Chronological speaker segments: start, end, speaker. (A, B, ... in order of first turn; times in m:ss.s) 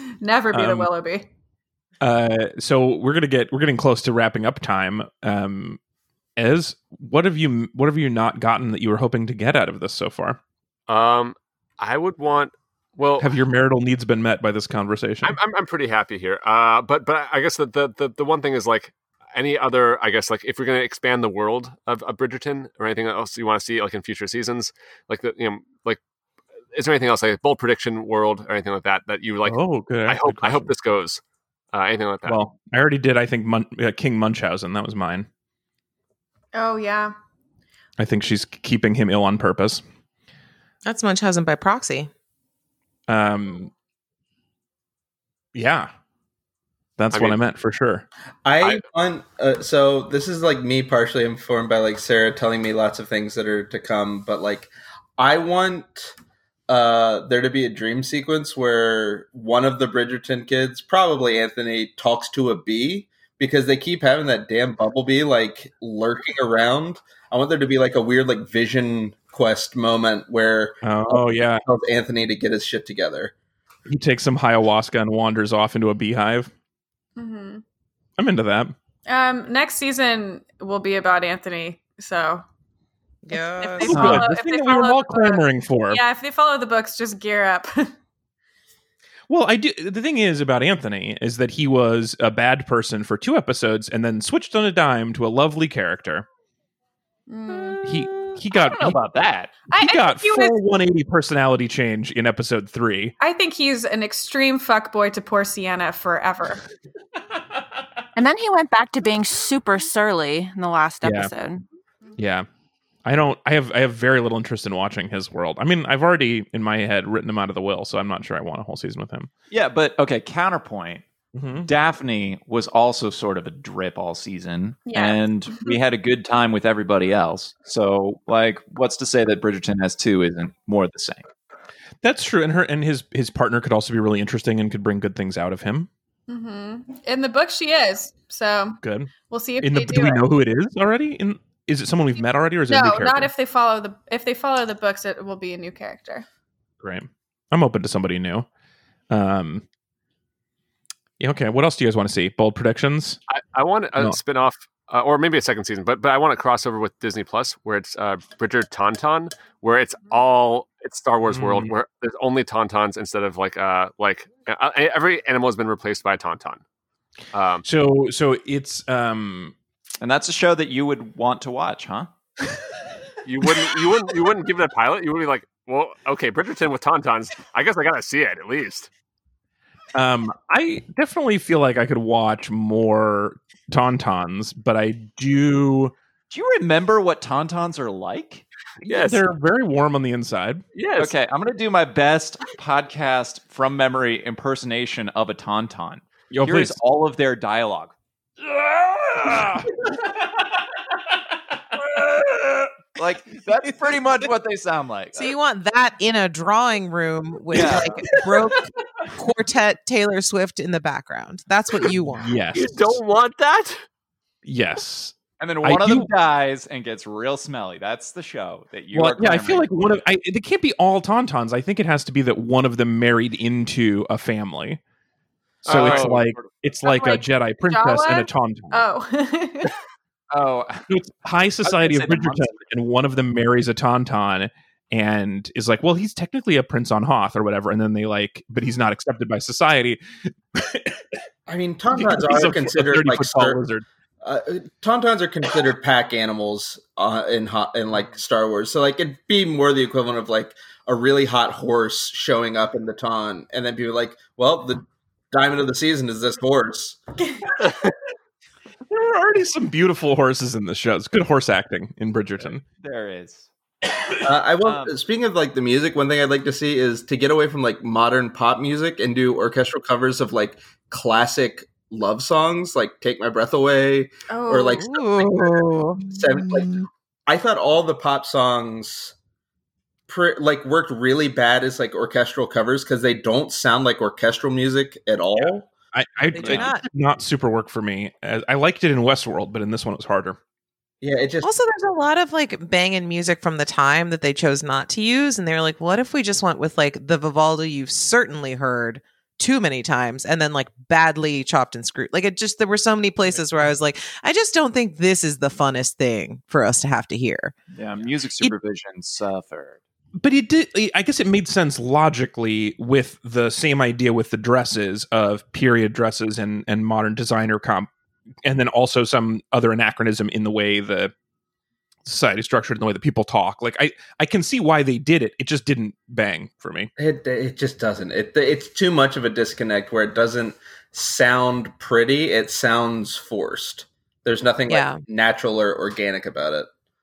0:00.2-0:01.3 A
0:00.5-0:00.9 B
0:02.0-0:05.8 B
0:06.4-0:10.4 B
0:10.9-0:13.3 C
0:13.2-0:15.4 B
0:15.2-0:26.0 C
0:26.7-0:31.2 C
0:29.4-0:30.7 B
0:31.7-0:32.4 C
0:32.2-0:35.3 B
0:36.5-0:37.1 A
0:38.0-0:39.8 B
0:40.8-0:42.1 D
0:43.1-0:43.7 B
0:45.5-0:45.9 B
0:47.0-0:48.0 B
0:48.4-0:56.1 E
0:56.7-1:13.3 E
1:10.8-1:11.6 B
1:13.9-1:16.5 B
1:17.2-1:17.6 A
1:18.2-1:18.7 B
1:19.1-1:22.4 A
1:23.2-1:24.2 D
1:23.3-1:27.9 A
1:23.9-1:26.0 B
1:23.9-1:24.2 F
1:29.3-1:36.2 B
1:37.3-1:37.8 A
1:37.7-1:39.7 F
1:37.8-1:39.0 B
1:38.5-1:38.9 A
1:39.7-1:40.6 A
1:39.7-1:43.1 B
1:43.2-1:46.6 A
1:48.2-1:51.6 G
1:51.0-1:51.3 B
1:52.2-1:52.4 B
1:53.0-1:59.3 B
1:59.5-2:01.0 F
2:01.3-2:01.7 B
2:01.6-2:11.2 F
2:04.8-2:05.8 A
2:12.0-2:15.9 B
2:16.3-2:20.3 A
2:18.8-2:23.3 B
2:22.7-2:26.2 A
2:26.8-2:28.5 B
2:29.1-2:29.6 B
2:31.2-2:33.2 B
2:33.3-2:46.6 C
2:41.3-2:41.7 B
2:47.3-2:47.6 C
2:47.6-2:49.5 B
2:50.0-2:52.1 F
2:53.2-2:58.9 C
2:59.9-3:05.9 B
3:06.3-3:08.4 F
3:08.8-3:10.6 B
3:08.9-3:09.2 C
3:10.7-3:11.1 C
3:11.0-3:17.9 F
3:16.3-3:16.8 B
3:19.0-3:19.6 F
3:19.2-3:19.6 B
3:22.0-3:22.7 B
3:23.0-3:25.3 F
3:25.1-3:32.3 D
3:27.5-3:28.0 F
3:32.2-3:33.0 B
3:32.5-3:33.8 C
3:34.4-3:36.1 B
3:35.4-3:39.7 F
3:38.9-3:44.8 B
3:45.6-3:48.8 B
3:45.6-3:46.2 C
3:45.7-3:46.5 F
3:46.8-3:49.7 A
3:50.3-3:50.8 F
3:50.9-4:00.0 B
3:51.6-3:52.5 F
4:00.5-4:01.0 B
4:01.5-4:03.6 E
4:01.9-4:03.8 B
4:04.2-4:17.0 E
4:18.9-4:22.6 B
4:22.4-4:23.5 F
4:24.2-4:39.1 E
4:24.6-4:24.9 F
4:34.3-4:34.8 A
4:34.5-4:36.6 D
4:40.1-4:45.7 E
4:45.4-4:50.4 B
4:46.3-4:46.8 D
4:51.0-4:51.5 E
4:51.4-5:07.5 D
5:07.7-5:09.8 F
5:10.2-5:17.9 B
5:18.4-5:21.1 B
5:22.0-5:26.9 B
5:27.0-5:36.7 E
5:34.7-5:35.0 D